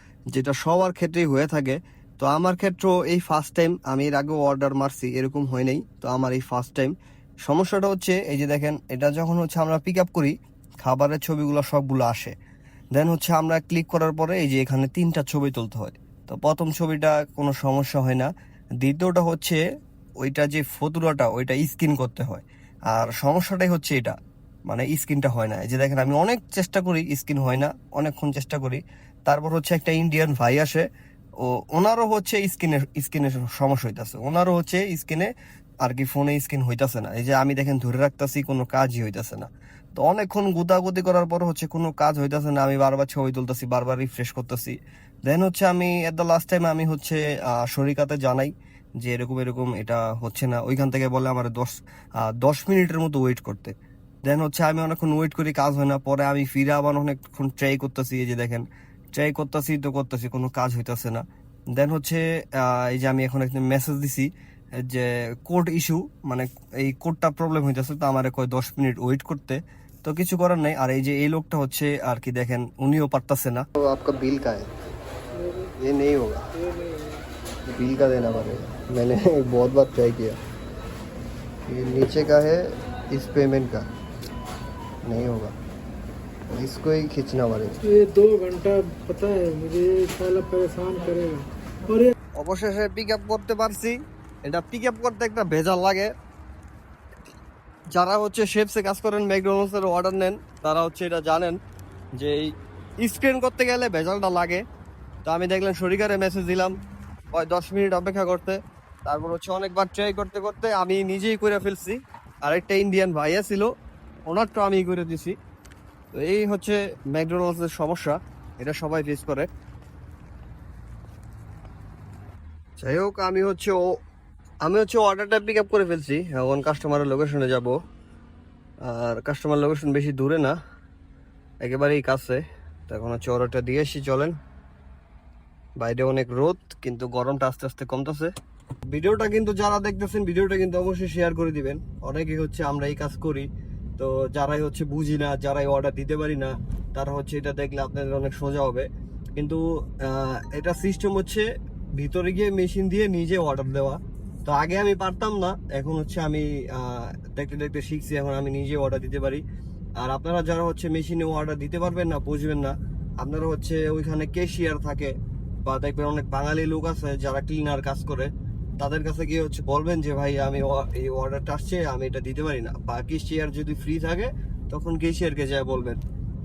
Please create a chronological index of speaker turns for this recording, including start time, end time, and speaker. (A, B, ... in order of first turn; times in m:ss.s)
0:00.3-0:06.9 A
0:07.4-0:12.3 A
0:12.9-0:18.3 A
0:18.8-0:19.6 A
0:20.2-0:30.8 A
0:31.4-0:35.3 A
0:35.8-0:44.8 A
0:45.3-0:53.7 A
0:54.3-0:58.6 A
0:59.2-1:01.2 A
1:01.8-1:04.3 A
1:04.8-1:14.7 A
1:15.4-1:15.7 B
1:15.8-1:16.5 A
1:16.6-1:17.2 B
1:17.7-1:20.4 A
1:21.7-1:23.9 A
1:25.1-1:25.6 A
1:26.5-1:27.8 A
1:27.8-1:32.1 B
1:32.4-1:36.1 A
1:38.0-1:41.6 A
1:42.2-1:42.5 A
1:43.0-1:44.6 A
1:45.2-1:46.7 A
1:47.3-1:53.7 A
1:54.3-1:55.4 A
1:56.2-1:59.5 A
2:02.8-2:03.8 A
2:04.7-2:07.7 A
2:08.8-2:10.6 A
2:11.6-2:14.3 A
2:15.8-2:18.3 A
2:18.9-2:23.5 A
2:24.0-2:28.8 A
2:29.4-2:39.4 A
2:40.0-2:45.1 A
2:45.6-2:56.0 A